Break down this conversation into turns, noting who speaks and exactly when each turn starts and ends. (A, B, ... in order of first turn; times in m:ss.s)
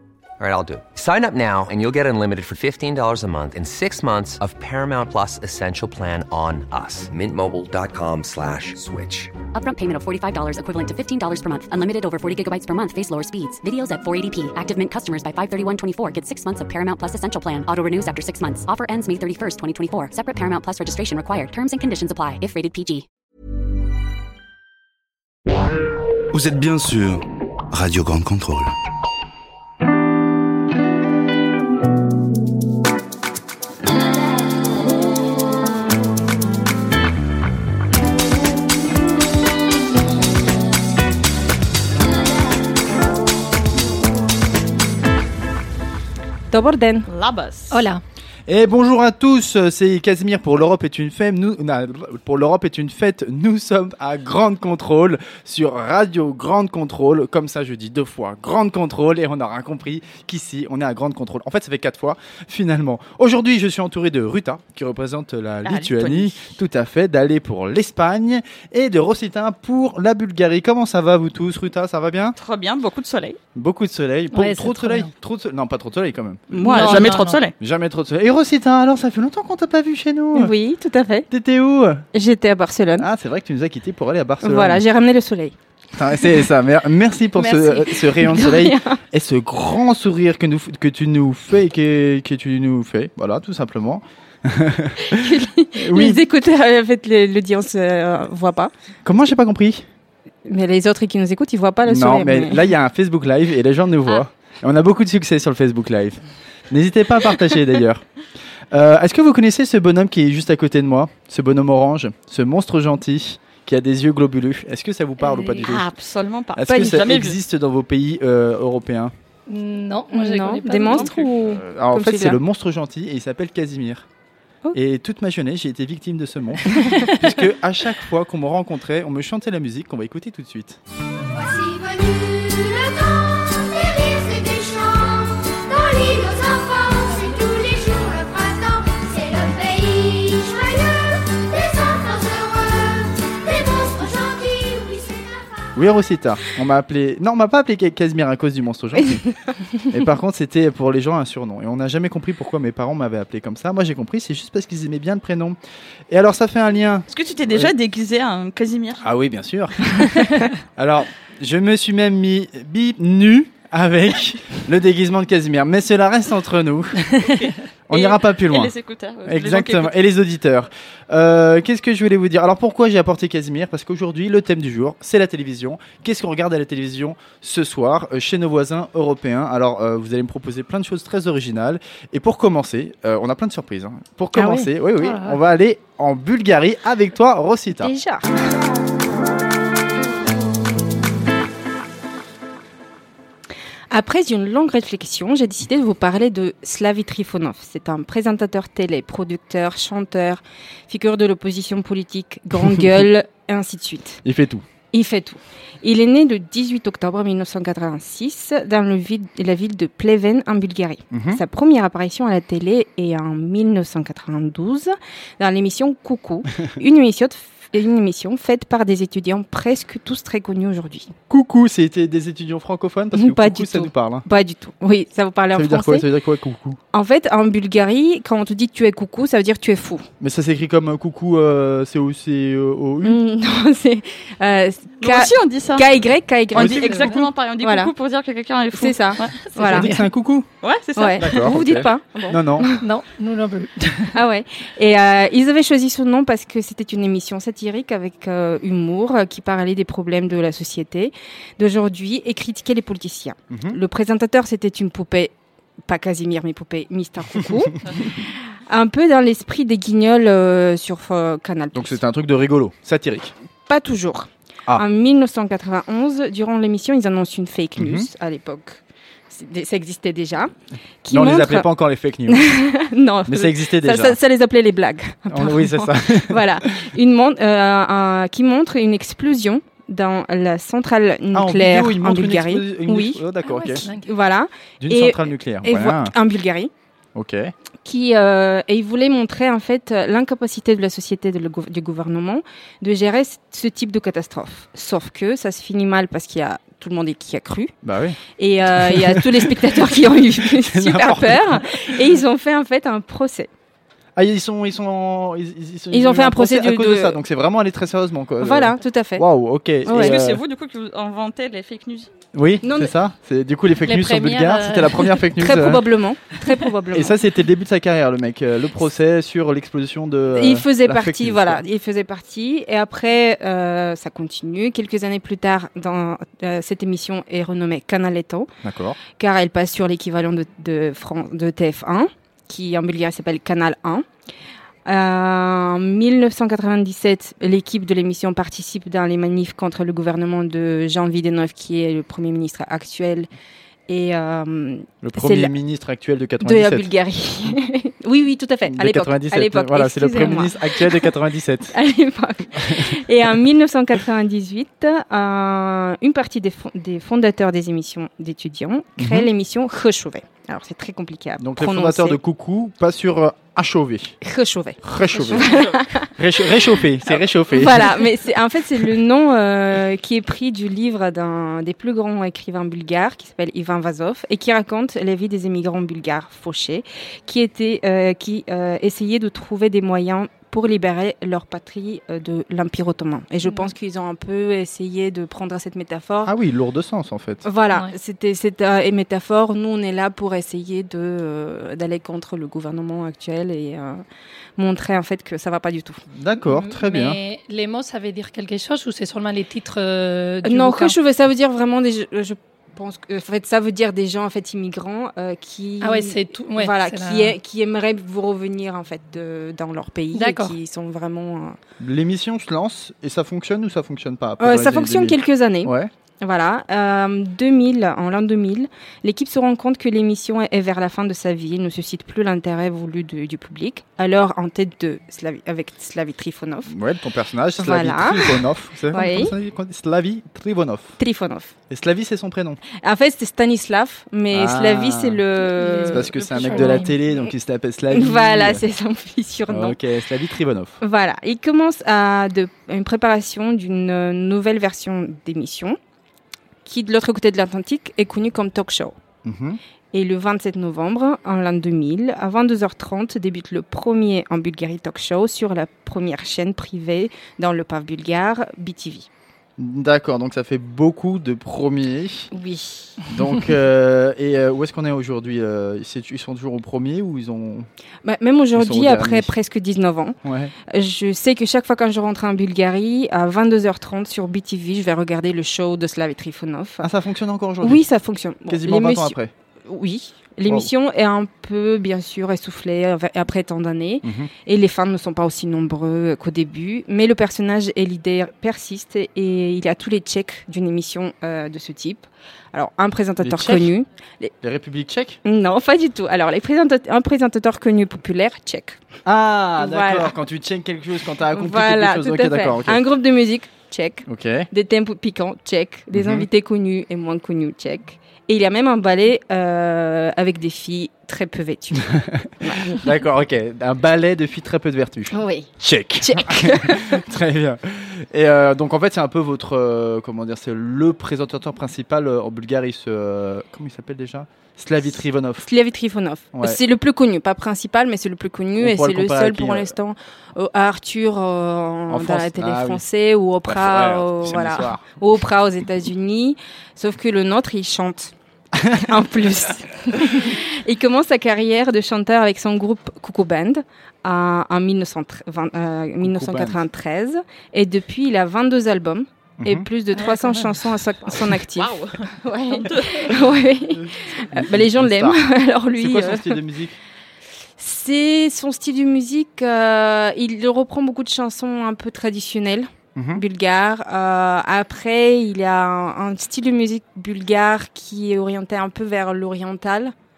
0:00.4-0:09.3 A
0:09.5-0:23.1 B
0:26.3-0:28.7 C
0:46.5-0:47.1 D
0:47.1-0:47.9 E
0:47.7-0:48.0 F
0:48.5-1:12.4 G
1:05.6-1:06.5 E
1:12.4-1:13.4 E
1:13.6-1:20.5 G
1:14.3-1:15.1 F
1:16.5-1:17.5 E
1:16.7-1:17.4 F
1:20.4-1:21.3 D
1:21.3-1:22.0 G
1:22.1-1:23.1 D
1:23.0-1:24.8 G
1:24.4-1:25.6 D
1:26.0-1:36.2 G
1:27.4-1:29.0 D
1:35.1-1:38.7 D
1:39.0-1:39.9 G
1:40.5-1:42.6 D
1:41.8-1:48.0 G
1:48.7-1:55.9 G
1:55.6-1:57.4 E
1:56.6-1:59.1 G
1:59.5-2:01.3 F
2:00.1-2:02.4 D
2:01.4-2:04.1 G
2:04.7-2:10.8 G
2:11.4-2:25.4 H
2:25.8-2:29.2 G
2:29.9-2:35.6 G
2:36.1-2:37.7 G
2:37.1-2:39.0 E
2:39.0-2:47.1 G
2:47.2-2:49.9 E
2:47.9-2:48.7 G
2:49.2-3:07.9 G
3:04.4-3:05.3 D
3:07.8-3:08.4 D
3:13.9-3:24.2 D
3:22.6-3:23.0 G
3:24.2-3:24.7 G
3:24.9-3:41.1 D
3:31.1-3:31.4 G
3:41.3-3:44.2 G
3:43.2-3:46.1 D
3:45.5-3:46.8 G
3:46.9-3:50.1 D
3:50.2-3:53.2 G
3:53.0-3:57.9 D
3:55.0-3:55.9 E
3:56.5-3:59.5 E
3:56.6-3:57.1 G
3:58.7-3:59.9 D
3:59.5-4:00.0 F
3:59.6-4:00.5 G
4:00.6-4:01.6 E
4:01.0-4:02.8 D
4:01.2-4:02.7 G
4:02.8-4:04.2 F
4:04.1-4:22.0 D
4:13.5-4:13.8 G
4:21.7-4:23.3 G
4:23.7-4:30.5 D
4:27.8-4:28.1 G
4:31.0-4:31.7 D
4:31.1-4:32.6 G
4:32.3-4:46.7 D
4:33.3-4:34.2 G
4:35.3-4:36.4 G
4:41.3-4:43.9 G
4:43.5-4:44.1 F
4:44.8-4:46.2 G
4:47.2-4:47.5 G
4:47.8-4:57.8 D
4:57.8-5:02.0 G
4:58.4-5:03.5 D
5:04.2-5:10.4 G
5:05.9-5:07.2 D
5:08.4-5:09.2 D
5:09.9-5:10.1 D
5:09.9-5:12.1 E
5:12.3-5:15.8 G
5:12.6-5:12.9 D
5:13.8-5:15.1 F
5:15.4-5:17.1 D
5:16.9-5:21.6 G
5:20.3-5:28.5 D
5:28.6-5:29.0 G
5:29.1-5:34.1 D
5:34.8-5:43.3 D
5:43.9-5:45.5 D
5:45.0-5:46.9 G
5:46.4-5:51.1 D
5:48.7-5:51.7 G
5:51.7-6:02.2 D
5:59.0-5:59.3 G
6:01.4-6:04.2 G
6:04.2-6:06.8 D
6:04.8-6:08.1 G
6:07.5-6:26.3 D
6:26.2-6:27.5 G
6:27.4-6:34.0 D
6:34.6-6:36.0 D
6:36.1-6:37.2 G
6:36.5-6:41.0 F
6:40.4-6:51.6 D
6:45.8-6:47.3 F
6:50.1-6:50.6 F
6:51.8-6:55.9 G
6:54.4-7:06.7 D
7:06.7-7:11.0 G
7:07.6-7:09.3 D
7:11.0-7:11.6 D
7:11.7-7:12.6 G
7:12.8-7:16.9 D
7:14.3-7:15.2 G
7:15.4-7:17.0 F
7:15.9-7:18.6 G
7:17.9-7:19.8 D
7:19.5-7:20.8 G
7:20.8-7:25.8 D
7:26.6-7:29.0 D
7:29.2-7:29.6 G
7:29.9-7:39.1 D
7:39.6-7:42.3 G
7:42.3-7:43.1 D
7:43.1-7:47.7 G
7:48.0-7:50.2 D
7:48.6-7:49.3 G
7:50.2-7:50.5 G
7:50.7-7:56.9 D
7:56.8-7:57.8 G
7:57.6-8:14.3 D
7:58.5-7:59.3 G
8:00.5-8:00.7 G
8:04.0-8:04.3 G
8:13.2-8:13.7 G
8:14.4-8:15.2 G
8:15.2-8:18.8 D
8:19.0-8:22.8 G
8:19.6-8:20.1 D
8:21.3-8:32.8 D
8:24.1-8:24.5 G
8:25.9-8:26.3 G
8:31.9-8:45.5 G
8:35.1-8:37.0 D
8:45.5-8:58.1 D
8:46.3-8:46.6 G
8:48.6-8:49.7 G
8:51.9-8:52.8 G
8:53.5-8:54.8 G
8:58.6-8:58.9 G
8:58.7-9:16.4 D
9:06.0-9:06.6 G
9:09.4-9:09.7 G
9:11.6-9:13.2 E
9:14.3-9:15.2 G
9:15.8-9:16.8 G
9:17.6-9:29.9 D
9:23.0-9:23.2 G